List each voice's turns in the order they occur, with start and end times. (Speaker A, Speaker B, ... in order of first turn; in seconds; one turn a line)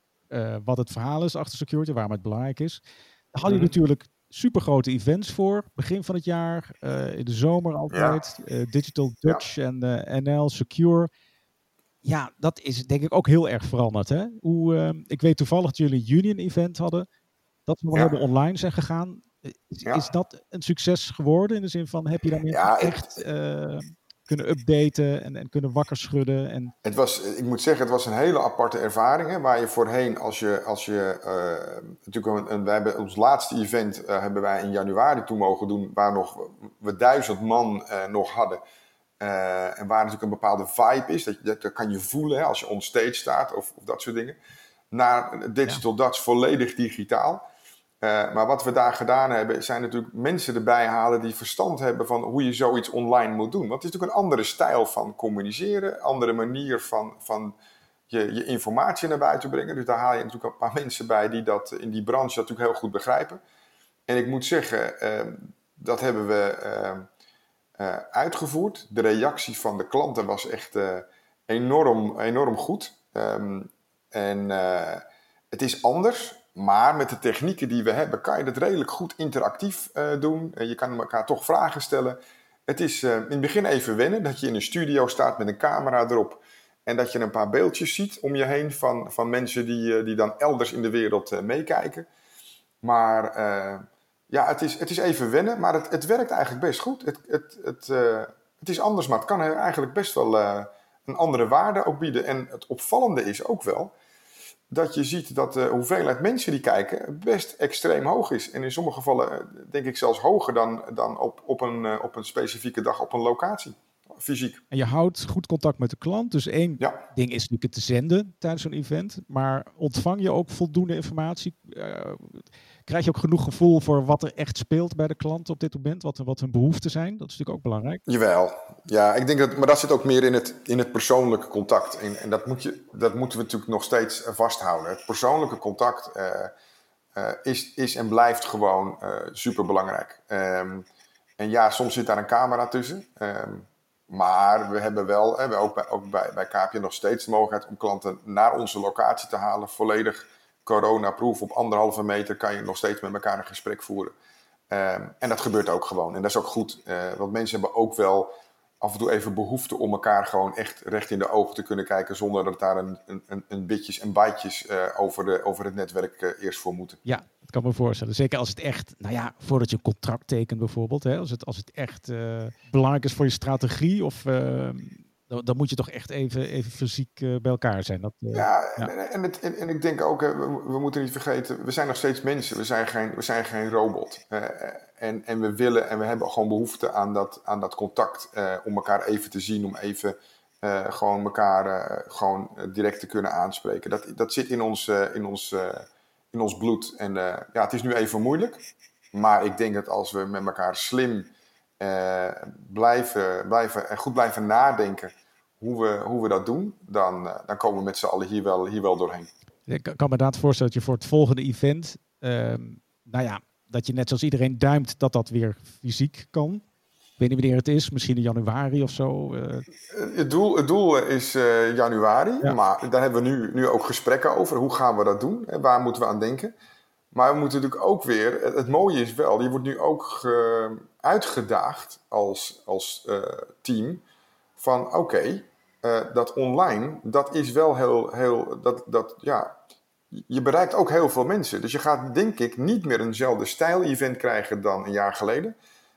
Speaker A: 0.3-11.1
Speaker B: 3.5-3.7
Speaker B: 7.9-8.2
Speaker A: 12.0-17.1
Speaker A: 17.7-26.7
Speaker B: 17.9-18.2
Speaker B: 22.5-23.2
Speaker B: 26.8-38.6
Speaker B: 39.2-44.4
Speaker B: 44.9-47.4
Speaker B: 48.0-57.5
Speaker B: 58.1-63.4
Speaker B: 64.1-67.1
Speaker B: 67.8-92.1
Speaker B: 92.8-103.9
Speaker B: 104.7-114.6
Speaker A: 114.7-128.0
Speaker B: 128.1-136.5
Speaker B: 137.2-140.9
Speaker B: 141.4-154.1
Speaker B: 154.7-167.0
Speaker A: 167.1-178.9
Speaker B: 178.3-209.3
Speaker A: 209.7-216.6
Speaker A: 217.2-219.7
Speaker B: 219.9-226.5
Speaker B: 227.1-234.0
Speaker B: 234.6-239.6
Speaker B: 240.1-245.6